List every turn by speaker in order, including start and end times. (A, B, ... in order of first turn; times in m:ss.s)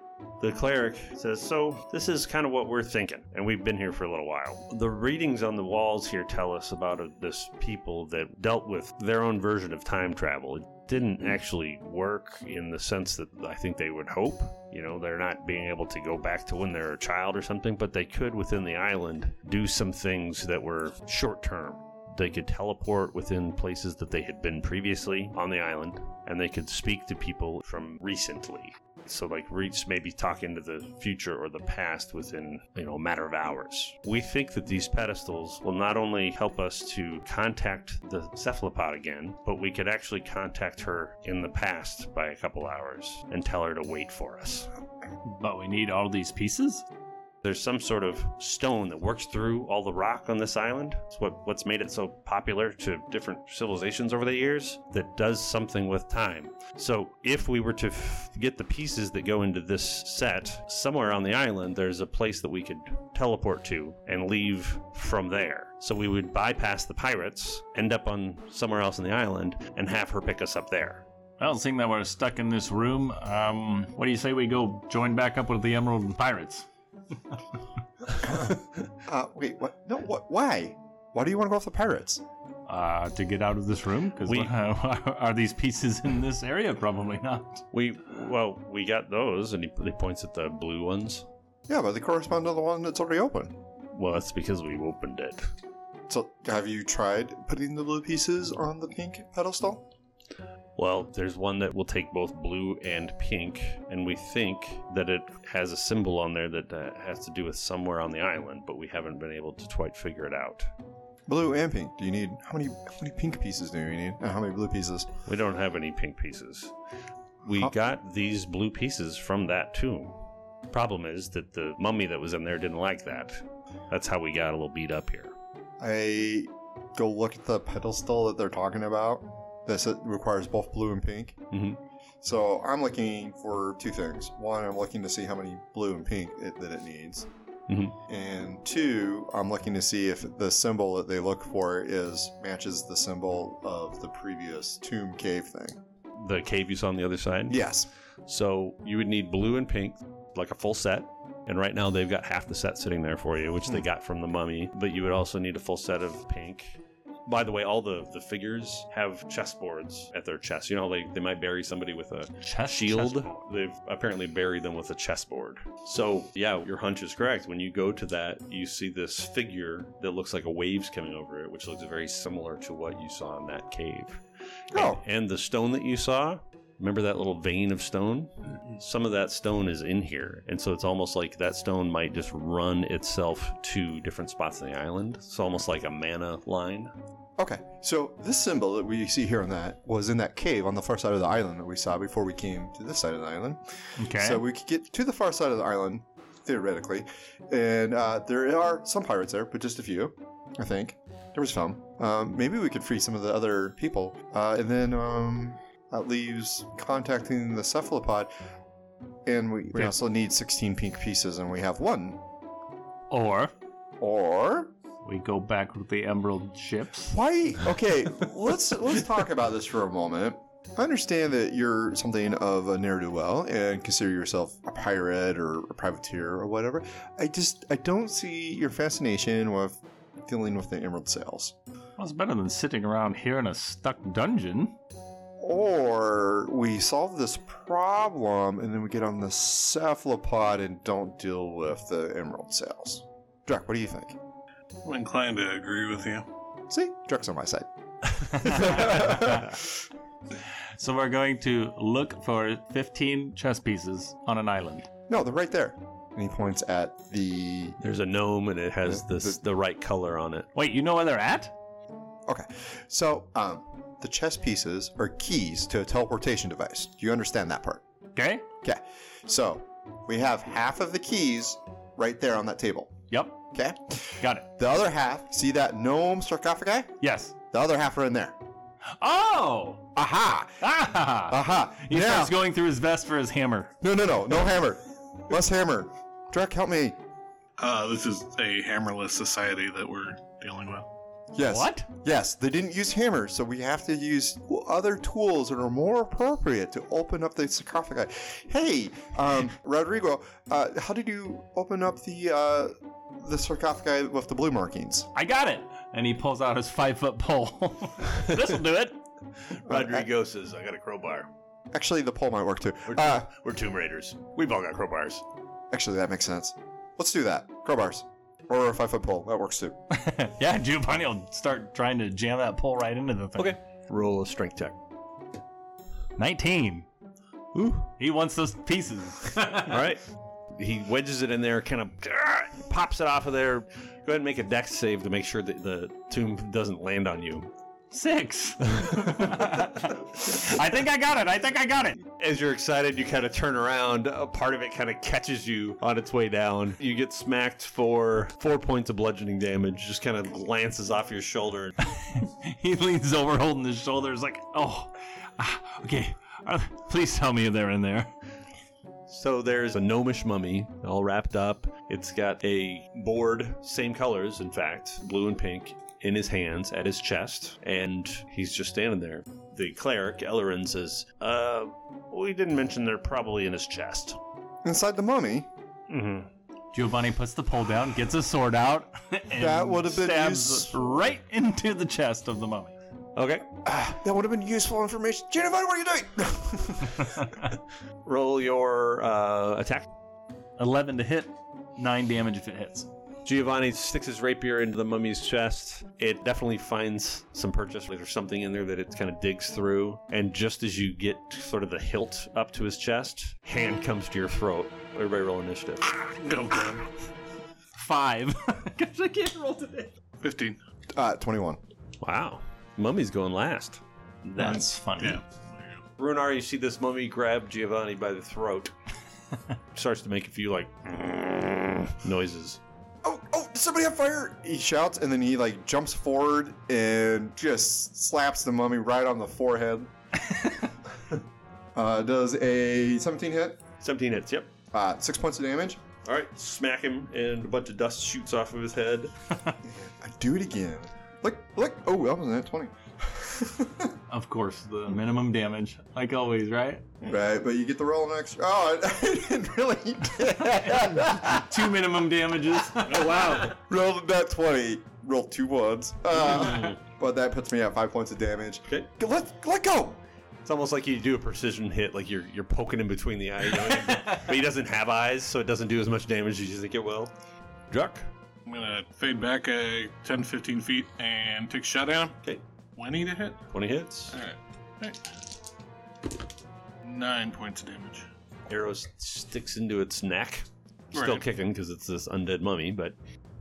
0:00.4-0:44.7 A
0:45.2-0:46.8 B
0:47.4-1:11.0 A
1:11.4-1:16.6 B
1:18.2-1:18.5 C
1:19.0-1:22.2 C
1:22.7-1:27.6 B
1:27.7-1:31.2 A
1:31.7-1:33.6 C
1:33.9-1:35.5 A
1:36.1-1:39.8 C
1:40.8-1:50.7 A
1:51.3-1:55.1 C
1:55.2-1:56.7 A
1:57.4-2:00.1 A
2:00.7-2:05.3 A
2:05.8-2:11.4 C
2:11.5-2:11.8 A
2:12.2-2:17.3 C
2:17.7-2:17.9 A
2:18.1-2:25.8 C
2:26.2-2:27.6 A
2:27.5-2:27.9 C
2:28.2-2:54.2 A
2:42.4-2:43.3 B
2:54.7-3:06.9 A
2:54.7-2:55.0 C
3:07.4-3:28.3 C
3:14.0-3:14.4 B
3:29.2-3:32.2 C
3:33.1-3:33.5 B
3:34.0-3:34.7 C
3:35.0-3:37.1 B
3:37.1-3:51.5 C
3:52.0-3:54.8 B
3:55.4-4:04.2 C
4:04.8-4:06.2 D
4:06.7-4:07.7 C
4:08.2-4:09.6 C
4:08.3-4:09.4 B
4:10.8-4:14.9 B
4:15.1-4:17.8 C
4:17.8-4:20.5 A
4:18.9-4:19.4 C
4:20.5-4:21.5 B
4:22.3-4:27.8 C
4:28.1-4:28.4 B
4:28.6-4:32.9 C
4:33.1-4:33.4 B
4:33.5-4:36.9 C
4:34.2-4:34.4 B
4:37.0-4:37.3 B
4:37.5-4:38.4 C
4:39.0-4:39.8 B
4:39.9-4:40.7 C
4:40.6-4:43.7 B
4:41.3-4:42.4 C
4:43.8-4:47.0 C
4:47.6-4:50.9 D
4:51.3-5:05.1 C
4:51.4-4:51.9 B
5:05.1-5:09.0 B
5:09.5-5:11.3 A
5:09.7-5:10.1 C
5:11.7-5:13.3 C
5:12.9-5:15.2 A
5:15.7-5:19.8 C
5:19.9-5:23.5 B
5:23.4-5:24.8 A
5:26.2-5:26.9 B
5:27.5-5:27.8 A
5:28.0-5:29.9 B
5:29.6-5:37.5 A
5:37.9-5:42.0 B
5:38.7-5:39.7 A
5:42.2-5:51.7 A
5:51.8-5:58.1 B
5:59.1-6:14.2 A
6:14.6-6:15.5 C
6:15.9-6:16.3 A
6:16.7-6:22.8 B
6:19.4-6:20.8 C
6:23.2-6:23.5 A
6:23.6-6:27.2 C
6:28.0-6:29.9 A
6:30.6-6:32.9 B
6:33.2-6:46.0 A
6:46.1-6:46.9 D
6:47.8-6:49.9 B
6:50.2-6:50.6 D
6:51.0-6:51.6 C
6:52.0-6:53.8 A
6:54.3-6:55.2 B
6:54.4-6:55.8 D
6:56.0-6:58.7 A
6:59.7-7:02.6 A
7:03.0-7:09.9 C
7:11.7-7:13.6 C
7:13.8-7:14.5 A
7:14.7-7:15.8 C
7:16.0-7:19.1 A
7:19.6-7:23.9 C
7:24.1-7:26.8 B
7:27.0-7:31.7 C
7:30.4-7:33.5 B
7:32.9-7:33.5 D
7:33.2-7:40.0 C
7:36.3-7:36.7 A
7:40.4-7:47.1 A
7:43.9-7:44.2 B
7:47.7-7:48.1 A
7:48.4-7:52.2 D
7:52.8-7:53.4 D
7:53.5-7:54.1 A
7:54.1-7:55.0 D
7:56.8-7:58.1 D
7:58.5-8:03.0 A
8:00.9-8:01.2 D